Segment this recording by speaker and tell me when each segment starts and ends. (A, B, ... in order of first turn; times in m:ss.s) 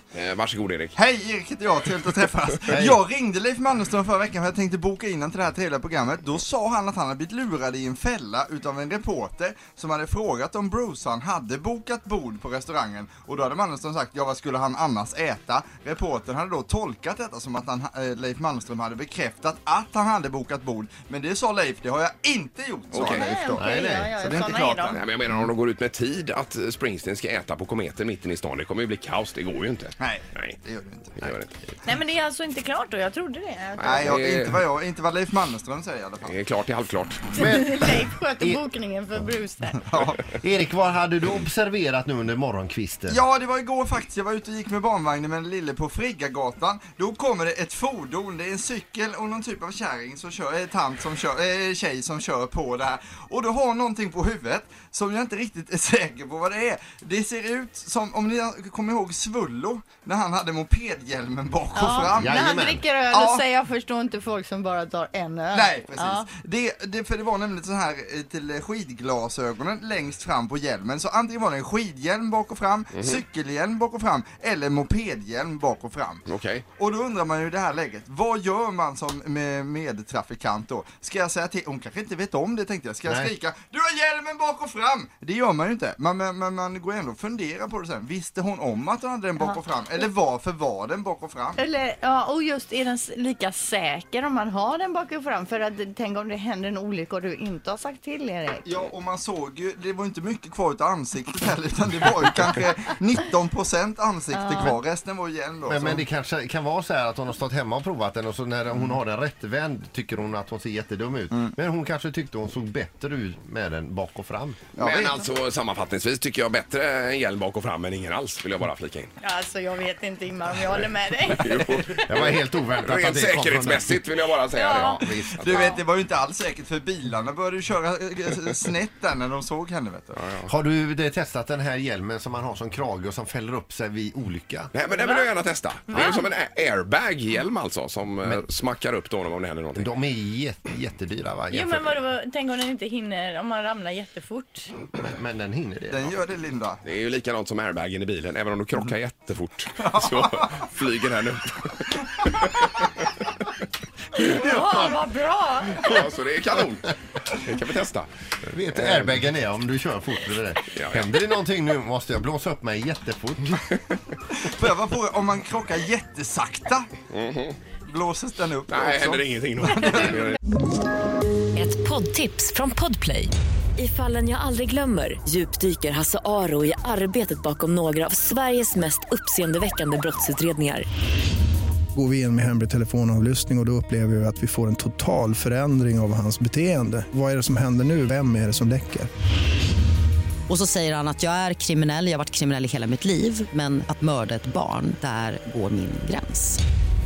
0:00.1-0:01.0 A
0:01.0-0:25.0 B
0:02.7-0:03.0 C
0:22.9-0:23.3 A
0:23.0-0:24.2 C
0:23.0-0:25.0 D
0:24.8-0:30.6 A
0:30.0-0:31.3 B
0:31.2-0:31.5 A
0:31.8-0:34.1 D
0:33.8-0:34.6 A
0:33.8-0:36.4 B
0:36.2-0:37.4 A
0:37.3-0:38.6 C
0:37.4-0:39.8 D
0:39.6-0:40.3 B
0:40.2-0:43.2 C
0:43.1-1:03.4 B
1:01.7-1:06.3 D
1:02.0-1:02.8 C
1:05.5-1:16.2 B
1:16.2-1:16.6 A
1:16.8-1:31.6 B
1:23.0-1:23.3 C
1:31.6-1:38.9 D
1:38.6-1:46.0 B
1:44.3-1:44.8 D
1:45.6-1:54.7 C
1:54.8-1:55.2 B
1:54.8-1:59.1 A
1:59.2-2:01.8 D
2:01.2-2:05.7 A
2:01.9-2:04.1 C
2:04.5-2:05.0 D
2:04.8-2:05.7 C
2:05.4-2:10.2 B
2:10.1-2:10.5 A
2:10.4-2:14.7 C
2:14.7-2:19.9 A
2:15.9-2:16.2 D
2:19.7-2:22.0 C
2:21.5-2:24.7 D
2:25.0-2:26.1 C
2:25.9-2:26.8 B
2:26.8-2:32.9 A
2:29.8-2:30.6 B
2:34.2-2:35.9 D
2:35.7-2:38.1 A
2:38.4-2:43.6 C
2:38.7-2:39.2 A
2:40.7-2:41.0 A
2:44.3-2:46.9 B
2:47.1-2:47.6 A
2:47.8-2:50.2 B
2:48.7-2:50.4 A
2:51.5-3:00.9 E
3:01.9-3:09.1 F
3:10.5-3:16.6 G